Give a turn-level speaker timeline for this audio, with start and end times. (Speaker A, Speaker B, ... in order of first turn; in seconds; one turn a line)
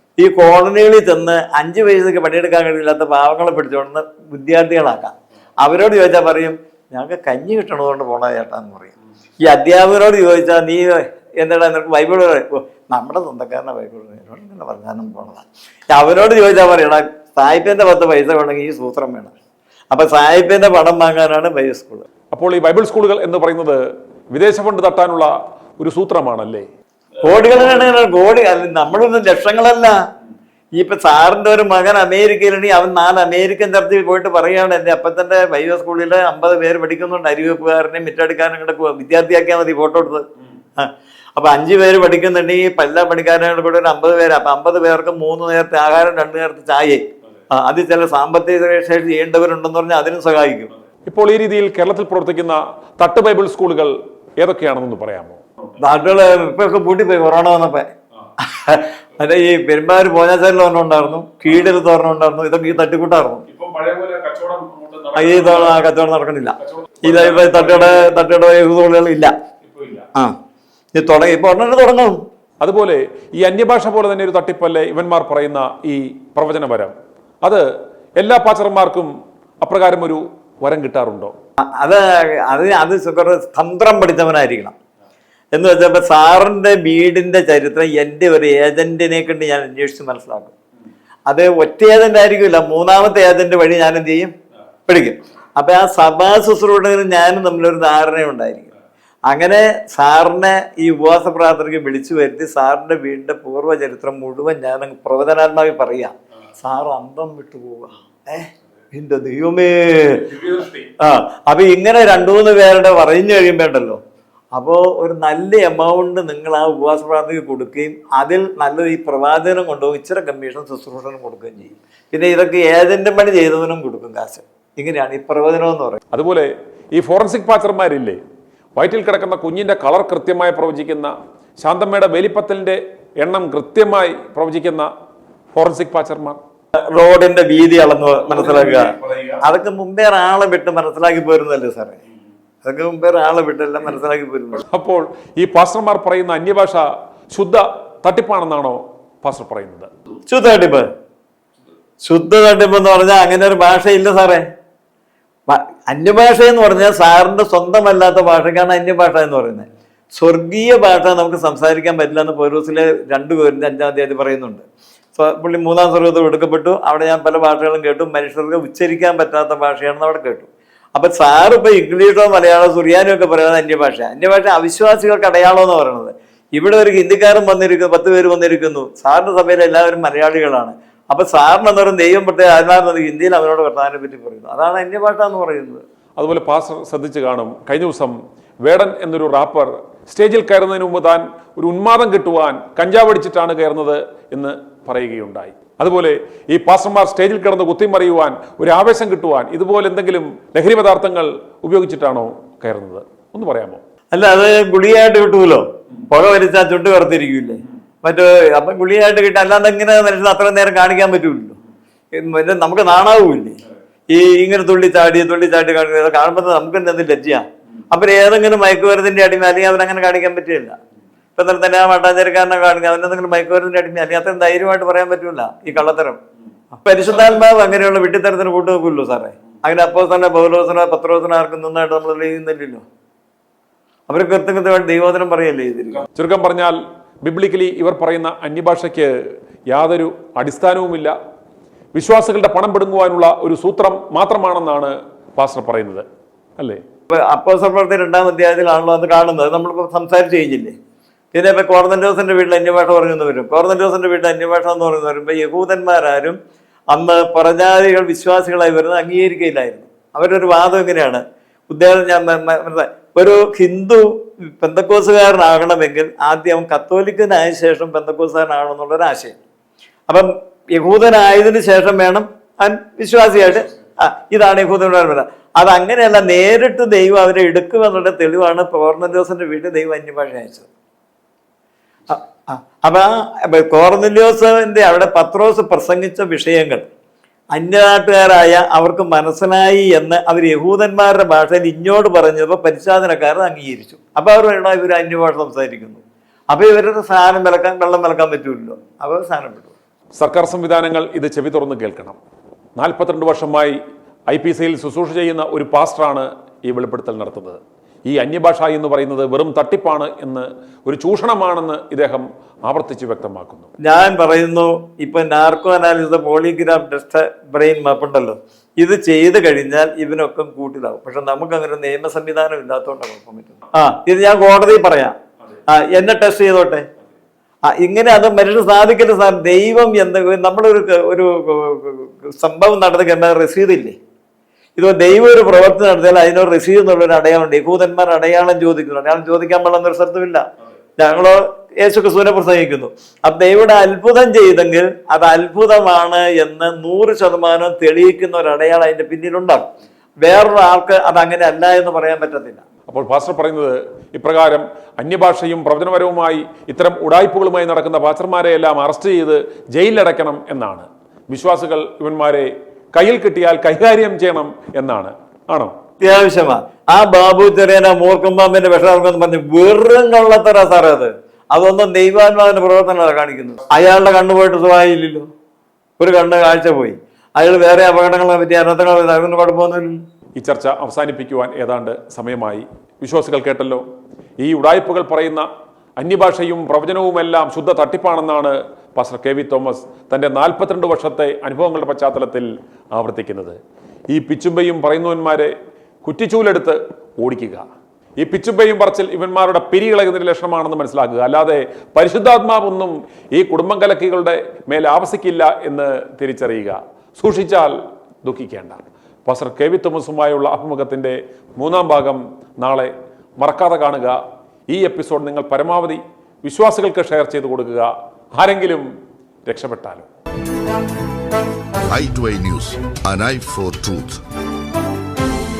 Speaker A: 0.2-19.3
Speaker A: 19.9-22.0
Speaker B: 22.3-23.8
Speaker B: 24.3-26.7
Speaker A: 27.3-29.9
Speaker B: 27.4-27.7
Speaker A: 30.8-40.3
Speaker A: 40.8-50.7
Speaker B: 51.1-55.8
Speaker A: 55.8-57.9
Speaker A: 58.5-63.4
Speaker B: 63.5-65.8
Speaker A: 65.2-69.3
Speaker B: 66.6-68.1
Speaker B: 69.6-70.1
Speaker A: 71.0-72.2
Speaker B: 72.6-76.9
Speaker B: 78.2-79.1
Speaker B: 79.6-81.3
Speaker A: 81.8-84.7
Speaker A: 85.5-90.5
Speaker A: 91.3-94.3
Speaker A: 94.9-98.7
Speaker A: 99.3-110.2
Speaker B: 110.3-110.9
Speaker A: 111.0-114.0
Speaker A: 114.5-126.0
Speaker B: 126.1-128.2
Speaker B: 128.8-131.1
Speaker B: 131.6-134.9
Speaker B: 135.6-136.4
Speaker A: 136.9-138.9
Speaker B: 138.2-139.4
Speaker A: 139.4-142.0
Speaker A: 142.6-144.6
Speaker B: 144.6-149.9
Speaker A: 150.3-150.9
Speaker A: 152.0-154.4
Speaker A: 155.5-164.6
Speaker A: 165.2-185.8
Speaker B: 186.2-203.8
Speaker A: 204.1-211.6
Speaker A: 212.1-213.6
Speaker A: 214.1-220.8
Speaker A: 221.4-226.2
Speaker A: 226.8-232.8
Speaker B: 227.2-227.4
Speaker A: 234.1-236.1
Speaker B: 236.1-239.1
Speaker B: 239.7-241.1
Speaker B: 241.9-246.1
Speaker A: 247.1-250.8
Speaker A: 251.3-256.4
Speaker A: 256.9-269.4
Speaker A: 270.1-280.7
Speaker A: 282.1-286.9
Speaker A: 287.5-299.7
Speaker B: 300.2-302.2
Speaker B: 302.8-303.8
Speaker B: 304.3-313.7
Speaker A: 313.8-325.1
Speaker A: 325.7-326.9
Speaker A: 327.7-334.0
Speaker A: 334.8-340.5
Speaker A: 341.0-349.7
Speaker A: 350.2-352.6
Speaker B: 352.9-365.7
Speaker A: 366.0-375.3
Speaker A: 376.0-379.9
Speaker B: 380.4-383.8
Speaker B: 384.4-385.5
Speaker B: 386.0-393.6
Speaker B: 394.1-397.6
Speaker B: 398.2-407.7
Speaker B: 408.2-414.2
Speaker B: 414.7-418.9
Speaker B: 419.5-420.1
Speaker C: 421.8-424.2